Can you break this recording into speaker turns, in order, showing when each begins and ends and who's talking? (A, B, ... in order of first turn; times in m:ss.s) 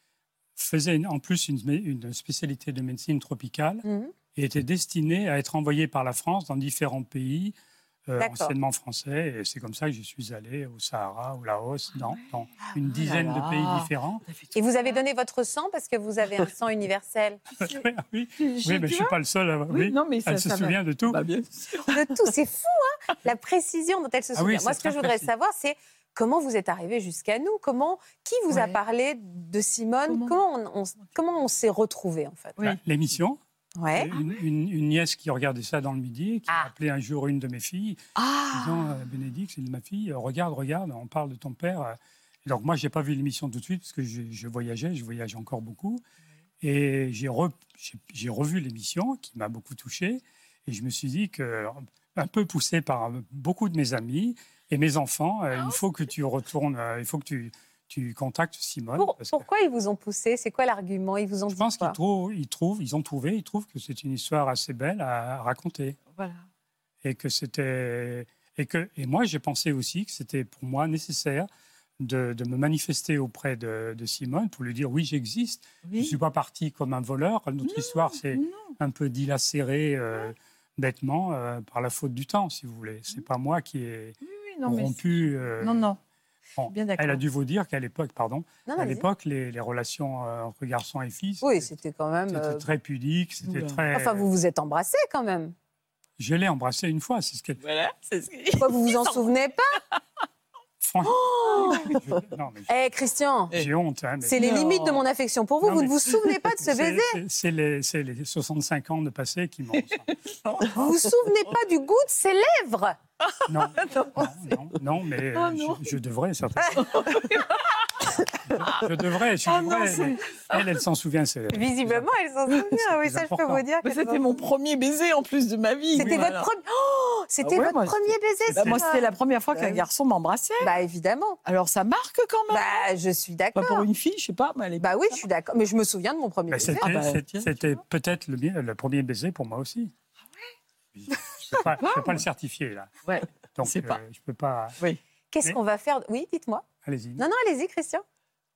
0:00.6-0:07.6 A
0:03.8-0:04.1 B
0:08.1-0:14.2 A
0:08.2-0:08.6 B
0:12.1-0:14.6 C
0:14.6-0:17.4 B
0:17.6-0:21.2 A
0:18.4-0:19.2 C
0:19.7-0:22.3 C
0:21.9-0:32.6 B
0:24.4-0:25.3 A
0:28.5-0:28.8 C
0:30.1-0:30.4 C
0:32.6-0:33.4 A
0:33.8-0:34.1 B
0:33.9-0:38.0 A
0:38.2-0:39.0 C
0:38.5-0:46.0 A
0:46.6-0:59.4 A
0:59.0-1:02.0 B
1:01.5-1:06.0 A
1:06.2-1:06.5 C
1:07.0-1:11.5 A
1:12.0-1:25.9 A
1:15.8-1:16.2 C
1:17.6-1:18.8 C
1:24.2-1:26.0 C
1:26.6-1:31.7 A
1:26.7-1:27.2 C
1:28.7-1:29.1 B
1:31.4-1:32.6 B
1:32.3-1:34.3 A
1:33.4-1:33.9 C
1:33.9-1:35.5 B
1:36.2-1:37.6 A
1:37.6-1:39.3 C
1:38.6-1:39.8 B
1:40.8-1:42.7 A
1:41.0-1:42.0 C
1:42.7-1:43.6 B
1:43.5-1:44.5 A
1:44.2-1:47.2 B
1:44.3-1:45.0 C
1:45.6-1:50.1 A
1:49.8-1:51.0 C
1:50.7-1:53.0 B
1:53.3-1:54.3 C
1:53.5-1:57.2 A
1:55.3-1:56.0 C
1:56.7-2:00.8 C
1:58.4-2:03.6 A
2:01.5-2:04.2 B
2:03.8-2:06.5 C
2:06.0-2:09.8 B
2:06.0-2:06.3 A
2:07.4-2:10.7 C
2:08.5-2:08.8 A
2:10.6-2:11.4 B
2:11.4-2:12.9 C
2:12.5-2:13.9 B
2:13.6-2:15.2 C
2:14.8-2:16.9 B
2:16.5-2:19.9 A
2:16.8-2:17.8 C
2:21.0-2:22.9 A
2:21.8-2:22.2 C
2:23.0-2:24.0 C
2:23.5-2:24.8 A
2:25.3-2:26.6 B
2:26.8-2:27.2 A
2:27.2-2:28.0 B